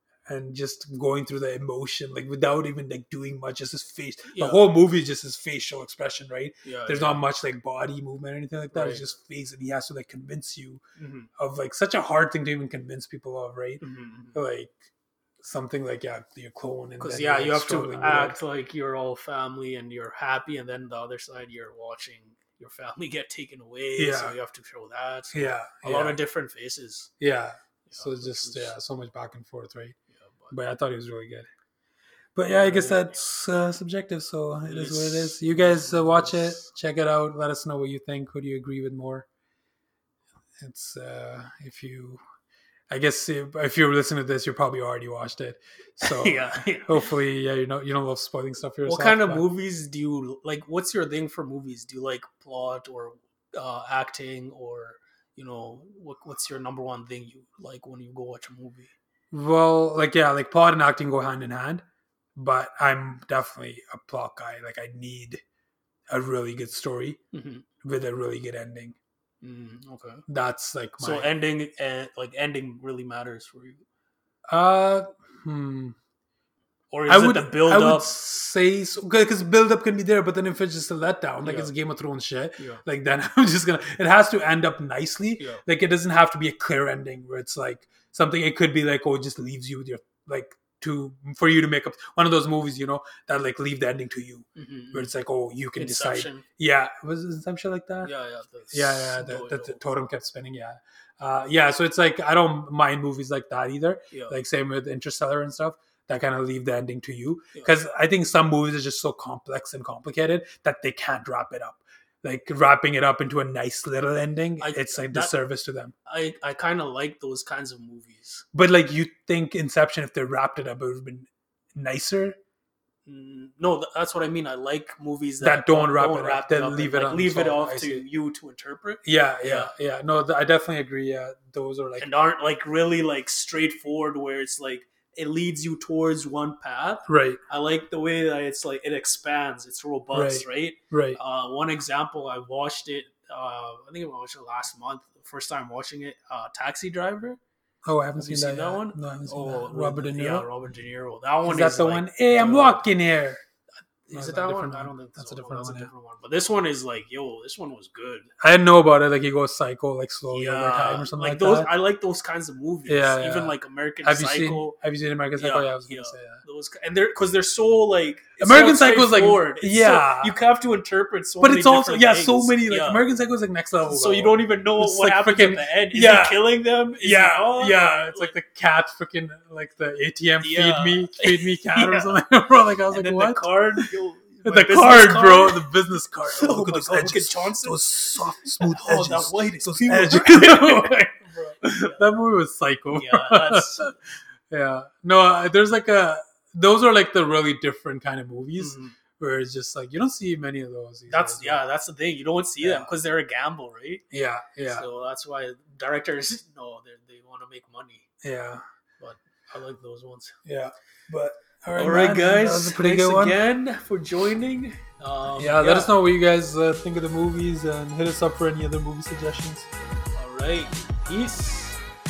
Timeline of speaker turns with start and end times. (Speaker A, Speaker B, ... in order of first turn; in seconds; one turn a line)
Speaker A: 0.3-10.8
Speaker B: 4.3-4.6
Speaker B: 6.6-7.2
Speaker B: 8.7-9.0
Speaker B: 11.0-11.3
Speaker A: 11.4-13.8
Speaker B: 13.8-14.4
Speaker A: 14.3-14.8
Speaker A: 15.4-18.4
Speaker B: 17.0-27.1
Speaker A: 23.9-24.4
Speaker A: 25.3-26.2
Speaker A: 27.2-30.0
Speaker B: 27.9-28.7
Speaker B: 30.1-30.5
Speaker A: 30.5-31.5
Speaker A: 32.3-39.3
Speaker B: 32.5-33.1
Speaker B: 34.6-36.6
Speaker A: 40.6-42.2
Speaker A: 42.9-49.4
Speaker B: 46.0-47.0
Speaker B: 48.8-58.9
Speaker A: 59.3-61.8
Speaker A: 62.3-65.4
Speaker A: 66.1-67.2
Speaker B: 67.3-67.7
Speaker A: 67.8-69.0
Speaker B: 69.4-70.2
Speaker A: 70.3-71.3
Speaker B: 71.0-73.8
Speaker A: 74.5-76.0
Speaker B: 76.9-78.1
Speaker A: 77.1-98.1
Speaker B: 81.4-81.7
Speaker B: 94.5-95.1
Speaker B: 95.8-96.4
Speaker B: 98.0-99.8
Speaker A: 98.7-115.9
Speaker B: 104.1-104.4
Speaker B: 114.6-115.3
Speaker B: 116.1-118.4
Speaker A: 118.5-122.4
Speaker B: 123.0-129.7
Speaker A: 125.4-128.0
Speaker A: 129.0-132.1
Speaker B: 132.0-147.4
Speaker A: 137.1-137.4
Speaker A: 140.1-141.2
Speaker A: 147.8-150.5
Speaker B: 148.2-152.8
Speaker A: 151.4-153.4
Speaker B: 154.1-158.3
Speaker A: 154.1-155.9
Speaker A: 158.4-161.7
Speaker B: 160.3-164.8
Speaker A: 162.9-166.4
Speaker B: 165.4-173.0
Speaker A: 168.4-170.3
Speaker A: 171.4-176.4
Speaker B: 173.9-178.3
Speaker A: 176.9-183.9
Speaker B: 180.4-182.2
Speaker B: 182.9-185.7
Speaker A: 184.4-193.9
Speaker B: 186.3-192.0
Speaker B: 192.9-193.9
Speaker A: 194.5-201.6
Speaker B: 198.6-198.9
Speaker B: 201.1-204.0
Speaker A: 202.6-202.9
Speaker A: 204.1-204.8
Speaker B: 204.6-208.1
Speaker A: 208.2-208.6
Speaker B: 209.0-210.3
Speaker A: 210.4-213.4
Speaker B: 211.8-215.9
Speaker A: 215.4-219.7
Speaker B: 220.1-221.8